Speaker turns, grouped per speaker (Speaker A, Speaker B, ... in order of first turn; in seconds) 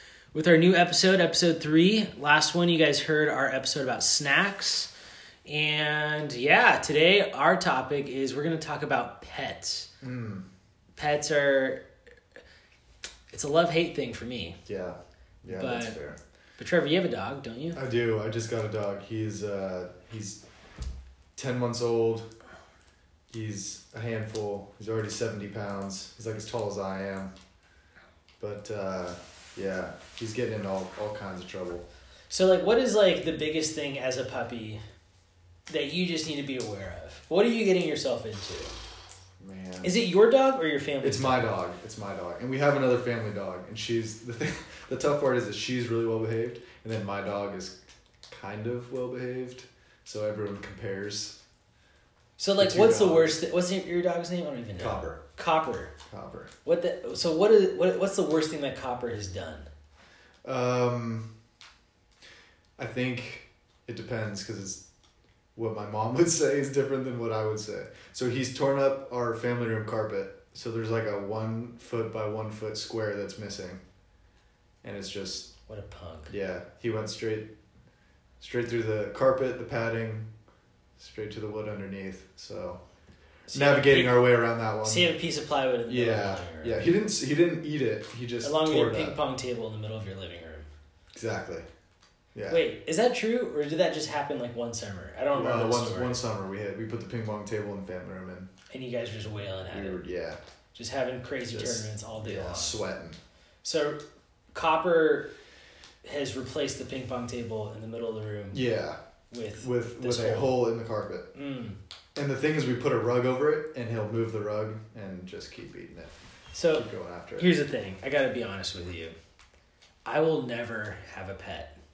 Speaker A: 0.3-4.9, 5.5-9.9, 11.0-11.8, 13.3-14.6, 15.5-16.0, 16.6-17.8, 32.3-34.8, 35.7-38.7, 39.8-41.5, 52.4-55.9, 56.6-59.7, 75.7-76.3, 83.5-84.3, 84.8-86.9, 88.4-90.7, 92.5-96.2, 98.7-100.0, 100.8-102.8, 103.6-104.0, 104.5-105.3, 106.0-108.6, 109.3-110.6, 111.3-111.8, 116.5-116.9, 117.4-119.2, 120.0-121.7
Speaker B: 10.0-10.4, 14.7-16.2, 17.8-20.4, 21.4-22.3, 23.3-27.3, 28.4-31.9, 39.4-39.9, 41.0-47.8, 48.3-51.4, 52.6-53.4, 54.8-55.2, 56.1-56.5, 60.4-61.3, 62.8-64.8, 65.6-73.8, 74.8-75.5, 76.3-77.5, 78.4-80.3, 81.0-82.8, 83.5-85.1, 85.9-89.2, 91.1-91.7, 92.3-92.6, 95.3-98.5, 99.7-100.4, 101.5-103.2, 108.5-109.0, 109.6-111.3, 112.2-116.1, 116.8-117.5